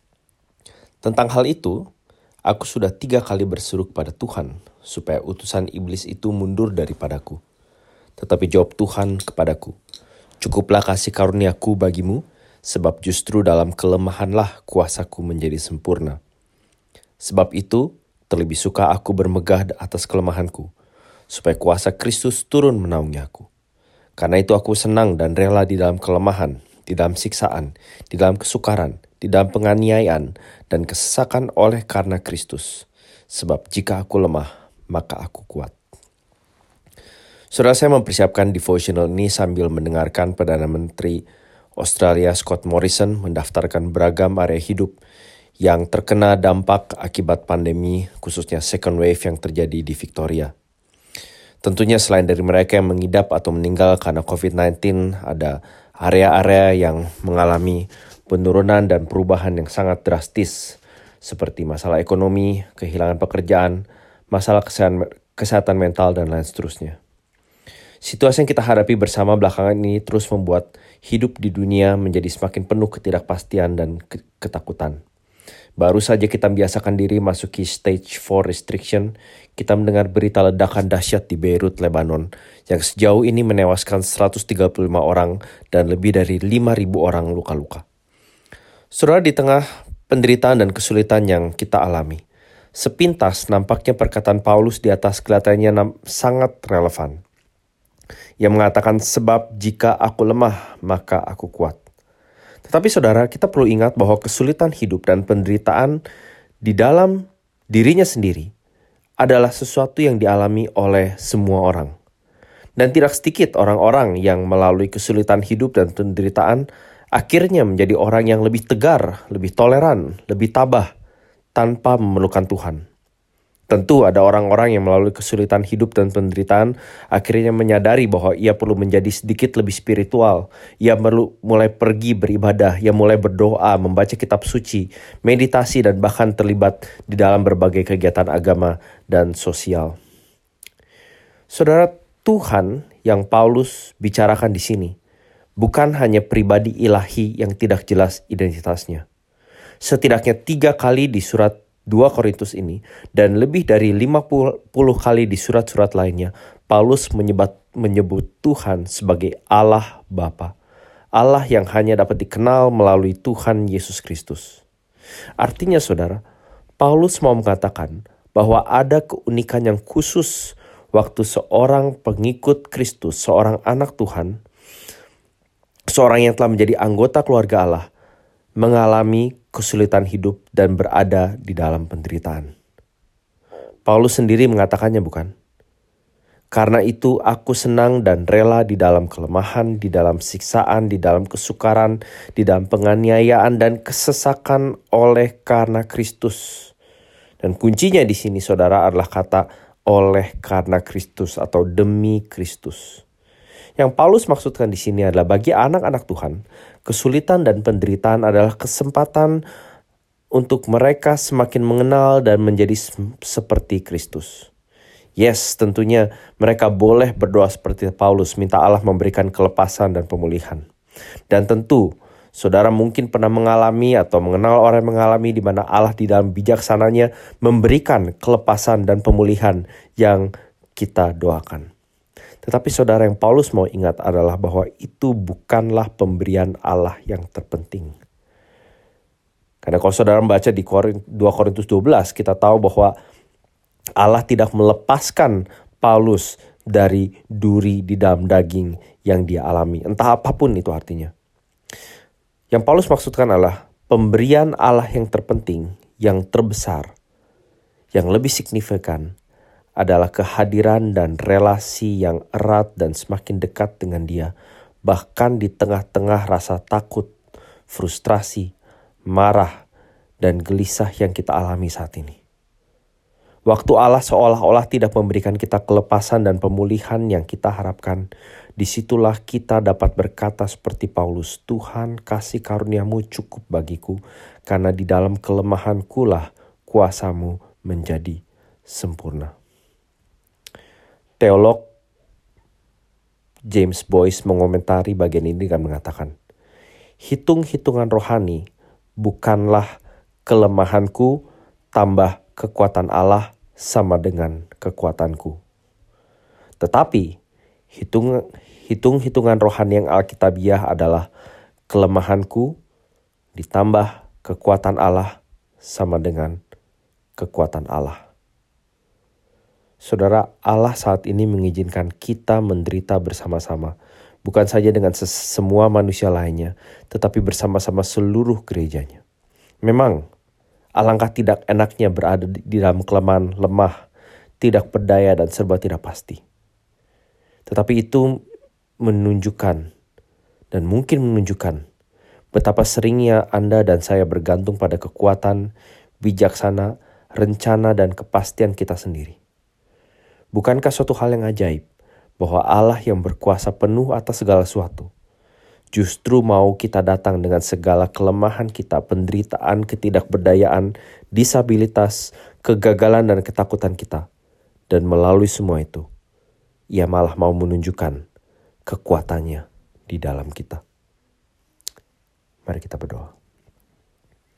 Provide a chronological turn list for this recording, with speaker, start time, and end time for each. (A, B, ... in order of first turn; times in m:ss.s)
0:01.0-0:01.8 A
0:02.5-0:07.4 A
0:08.2-0:09.7 A
0:10.4-0:16.2 A
0:17.2-0:20.7 A
0:21.3-0:23.5 A
0:24.2-0:35.7 A
0:37.5-0:41.2 A
0:41.8-0:45.0 A
0:45.6-0:50.5 A
0:51.6-1:07.0 A
1:08.0-1:15.0 A
1:15.8-1:27.8 A
1:28.9-1:32.2 A
1:32.8-1:37.2 A
1:38.4-1:41.8 A
1:42.6-1:46.0 A
1:46.6-1:48.5 A
1:49.2-1:51.9 A
1:52.8-2:00.9 A
2:01.6-2:02.8 A
2:03.7-2:20.0 A
2:21.5-2:24.9 A
2:25.6-2:29.0 A
2:29.8-2:40.5 A
2:41.2-2:44.6 A
2:45.4-2:46.2 A
2:46.8-2:54.4 A
2:55.9-2:57.9 A
2:58.6-3:02.5 A
3:03.9-3:05.3 A
3:06.5-3:16.7 A
3:17.4-3:23.0 A
3:23.8-3:29.4 A
3:30.4-3:34.5 A
3:35.2-3:40.6 A
3:41.3-3:51.7 A
3:52.4-3:57.9 A
3:59.6-4:02.9 A
4:04.0-4:11.1 A
4:12.5-4:16.9 A
4:17.9-4:19.1 A
4:19.8-4:24.3 A
4:24.9-4:27.1 A
4:27.7-4:28.5 A
4:29.1-4:29.6 A
4:30.2-4:32.2 A
4:33.5-4:38.0 A
4:38.6-4:49.3 A
4:51.2-4:51.6 A
4:53.5-4:56.1 A
4:57.0-4:58.4 A
4:59.0-4:59.7 A
5:00.2-5:01.2 A
5:01.7-5:05.4 A
5:06.6-5:07.0 A
5:07.7-5:11.0 A
5:11.7-5:12.5 A
5:13.3-5:16.4 A
5:17.2-5:18.0 A
5:19.8-5:23.7 A
5:24.2-5:29.0 A
5:29.6-5:30.0 A
5:30.8-5:33.7 A
5:34.4-5:36.2 A
5:37.5-5:38.1 A
5:38.8-5:39.6 A
5:40.5-5:41.6 A
5:42.3-5:45.4 A
5:46.0-5:49.2 A
5:50.3-5:51.6 A
5:52.2-5:54.9 A
5:55.7-6:04.0 A
6:04.7-6:05.8 A
6:06.7-6:08.0 A
6:08.7-6:10.6 A
6:12.5-6:13.1 A